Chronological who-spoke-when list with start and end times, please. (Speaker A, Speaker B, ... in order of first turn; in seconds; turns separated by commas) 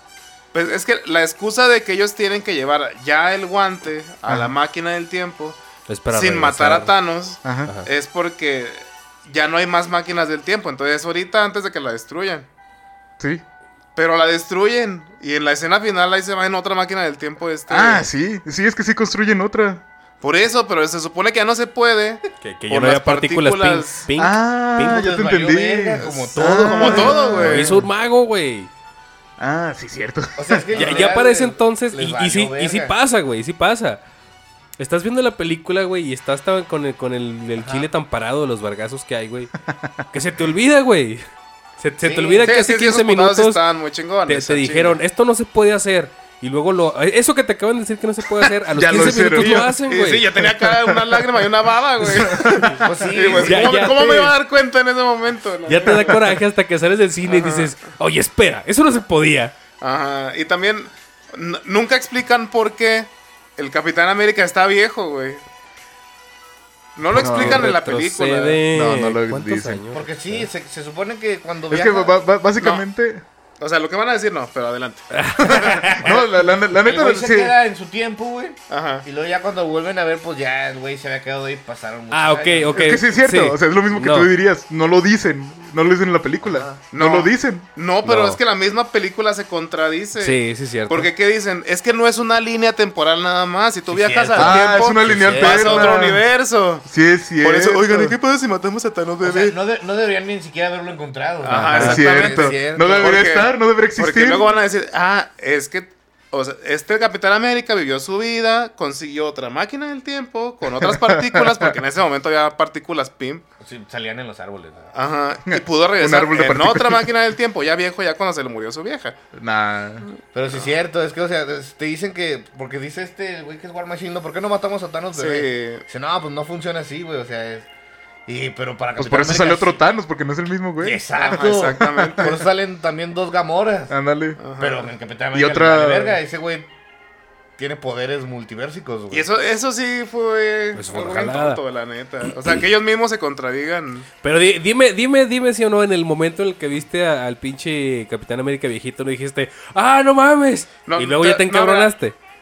Speaker A: 0.5-5.6, Speaker B: 4.2-4.5, Speaker C: 5.9-6.9, Speaker A: 6.1-12.5, Speaker B: 7.4-7.7, Speaker B: 13.2-13.4, Speaker A: 13.9-18.1, Speaker B: 17.7-19.8, Speaker A: 20.2-24.0, Speaker C: 22.4-25.1, Speaker B: 24.1-27.9, Speaker D: 24.9-27.5, Speaker A: 26.0-27.8, Speaker C: 26.8-28.7, Speaker B: 29.4-30.6, Speaker D: 30.4-32.9, Speaker C: 30.7-34.0, Speaker A: 30.8-31.1, Speaker C: 34.8-39.5, Speaker D: 37.6-37.9, Speaker B: 39.6-40.0, Speaker C: 40.1-41.2, Speaker C: 41.8-43.6, Speaker D: 42.0-42.5, Speaker A: 42.4-45.0, Speaker C: 44.2-50.3, Speaker B: 48.7-49.8, Speaker A: 48.9-56.3, Speaker B: 50.3-51.4, Speaker B: 52.0-53.5, Speaker D: 52.8-54.0, Speaker C: 53.3-54.3, Speaker C: 55.6-59.5, Speaker A: 57.2-57.7, Speaker A: 59.8-65.4, Speaker A: 67.0-68.6, Speaker B: 67.1-67.7, Speaker C: 67.1-70.5, Speaker B: 68.7-69.8, Speaker D: 69.9-72.2, Speaker B: 71.7-73.2, Speaker A: 72.6-72.8, Speaker A: 73.6-75.9, Speaker C: 75.1-76.1, Speaker B: 75.9-77.6, Speaker D: 76.0-82.8, Speaker A: 78.7-79.0, Speaker C: 82.1-84.3, Speaker B: 82.7-87.7, Speaker D: 86.4-86.8, Speaker A: 86.9-96.9, Speaker C: 88.0-88.4, Speaker C: 90.2-91.1, Speaker D: 93.9-95.9, Speaker B: 94.3-96.2, Speaker B: 96.8-98.2, Speaker A: 97.4-99.5, Speaker D: 99.2-103.2, Speaker A: 101.4-113.4, Speaker B: 101.5-104.5, Speaker C: 101.8-102.0, Speaker B: 110.7-111.8, Speaker D: 113.6-114.9, Speaker A: 114.9-119.2, Speaker B: 115.5-117.1, Speaker B: 119.3-120.1, Speaker D: 120.3-127.7, Speaker A: 125.1-125.8, Speaker D: 128.3-129.8, Speaker B: 129.0-131.0, Speaker D: 130.8-133.9, Speaker A: 131.2-132.4, Speaker B: 131.6-132.4, Speaker B: 133.9-134.4, Speaker A: 134.4-134.9, Speaker D: 134.6-136.7, Speaker B: 135.3-136.2, Speaker D: 137.6-139.3, Speaker A: 139.1-144.1, Speaker C: 140.7-141.6, Speaker C: 144.2-152.1, Speaker A: 150.8-151.9